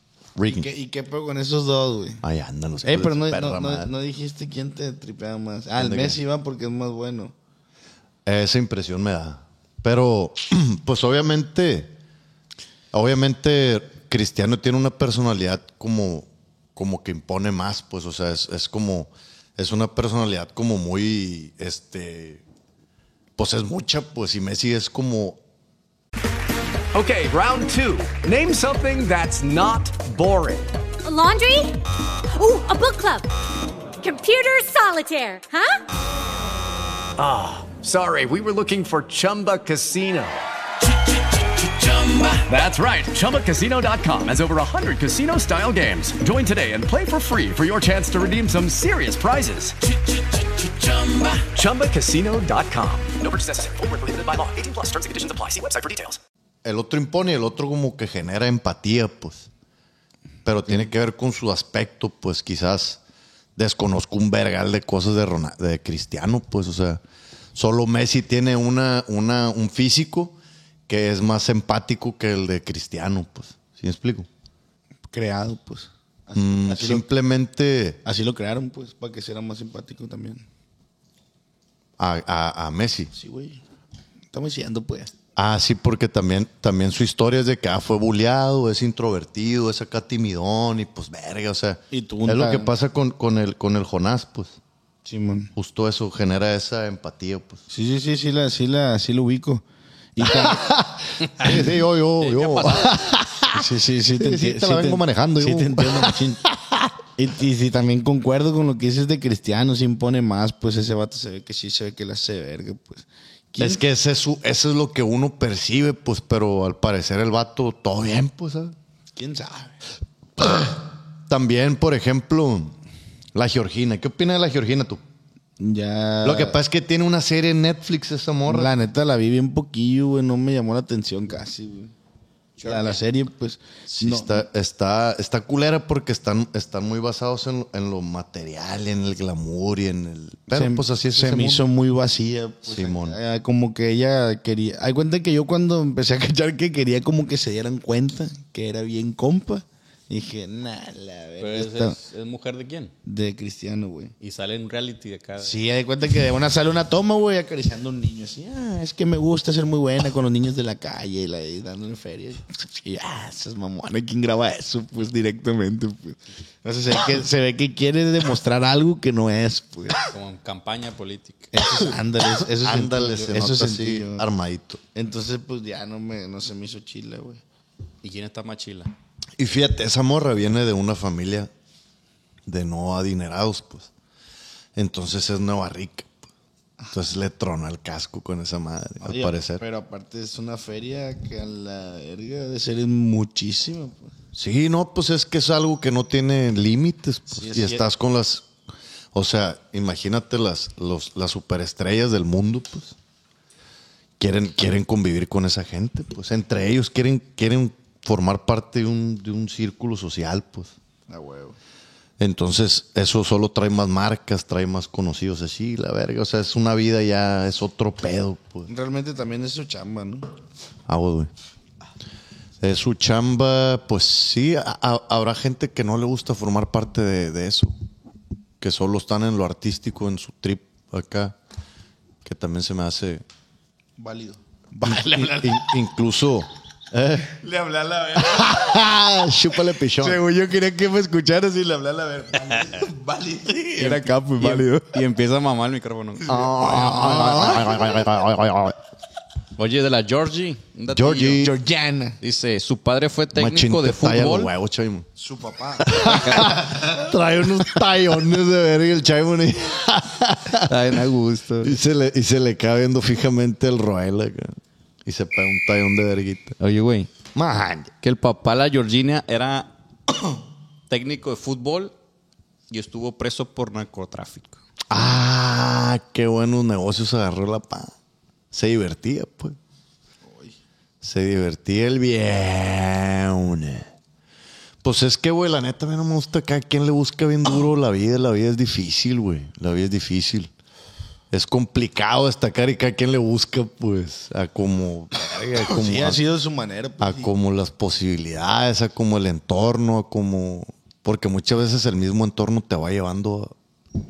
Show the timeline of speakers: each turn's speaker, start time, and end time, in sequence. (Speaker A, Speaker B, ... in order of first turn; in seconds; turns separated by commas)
Speaker A: 0.4-0.7, Speaker B: 0.5-2.2, Speaker A: 2.2-3.9, Speaker B: 2.8-7.3, Speaker A: 5.8-6.2, Speaker A: 8.2-11.9, Speaker A: 12.9-22.4, Speaker A: 23.4-25.4, Speaker C: 26.9-30.8, Speaker D: 31.0-31.8, Speaker D: 32.4-33.3, Speaker D: 34.0-35.8, Speaker C: 37.2-40.4, Speaker C: 41.6-56.2, Speaker A: 56.6-59.5, Speaker A: 60.4-63.0, Speaker A: 63.5-67.0, Speaker A: 67.5-70.3, Speaker A: 70.9-74.3, Speaker B: 75.1-77.1, Speaker A: 76.3-78.0, Speaker B: 78.0-80.4, Speaker A: 82.0-83.1, Speaker B: 83.1-83.6, Speaker B: 84.3-85.1, Speaker A: 85.3-94.6, Speaker B: 91.9-92.7, Speaker B: 95.0-95.5, Speaker A: 95.5-97.6, Speaker B: 97.7-100.6, Speaker A: 100.2-106.9, Speaker E: 102.2-103.0, Speaker B: 103.5-106.4, Speaker B: 107.2-113.8, Speaker A: 113.6-118.8, Speaker B: 119.2-119.8, Speaker A: 120.4-122.7, Speaker A: 123.3-125.0, Speaker B: 125.6-126.6, Speaker A: 126.2-128.7, Speaker B: 128.5-131.9, Speaker E: 132.6-132.9, Speaker B: 132.6-134.4, Speaker A: 133.9-141.6, Speaker B: 140.5-152.0, Speaker A: 142.7-143.2, Speaker E: 151.4-152.9, Speaker B: 153.0-154.1, Speaker E: 154.2-155.6, Speaker B: 155.4-170.0, Speaker E: 170.0-171.5, Speaker B: 171.5-174.2, Speaker A: 172.4-174.8, Speaker B: 174.9-177.4, Speaker E: 178.0-178.9, Speaker A: 179.4-181.5, Speaker A: 182.4-183.9, Speaker A: 184.8-186.1, Speaker A: 186.9-189.6, Speaker B: 189.0-194.1, Speaker A: 194.3-198.4, Speaker B: 197.3-197.8, Speaker A: 199.1-202.9, Speaker A: 204.2-210.7, Speaker B: 211.1-211.6, Speaker A: 212.2-218.7, Speaker B: 218.7-220.3, Speaker A: 220.8-221.3, Speaker A: 222.6-227.7, Speaker A: 228.6-231.3, Speaker A: 232.2-233.2, Speaker B: 234.0-235.7, Speaker A: 234.8-237.4, Speaker B: 237.4-238.8, Speaker A: 238.2-240.2, Speaker B: 240.0-245.0, Speaker E: 243.8-247.6, Speaker A: 246.3-248.8, Speaker B: 246.4-247.6, Speaker E: 249.6-251.5, Speaker A: 250.9-251.5, Speaker B: 251.4-252.2, Speaker E: 252.2-254.5, Speaker A: 253.3-255.1, Speaker B: 255.2-256.8, Speaker A: 255.9-260.8, Speaker E: 256.1-256.4, Speaker E: 260.6-261.8, Speaker A: 261.6-266.6, Speaker E: 266.6-267.1, Speaker A: 267.3-267.9, Speaker E: 268.0-269.7, Speaker E: 270.9-271.9, Speaker E: 272.7-274.6, Speaker A: 274.9-277.9, Speaker A: 278.5-279.6, Speaker B: 280.2-280.5, Speaker A: 281.0-283.9, Speaker A: 284.8-290.5, Speaker A: 291.3-296.2, Speaker B: 295.7-297.3, Speaker A: 297.0-303.5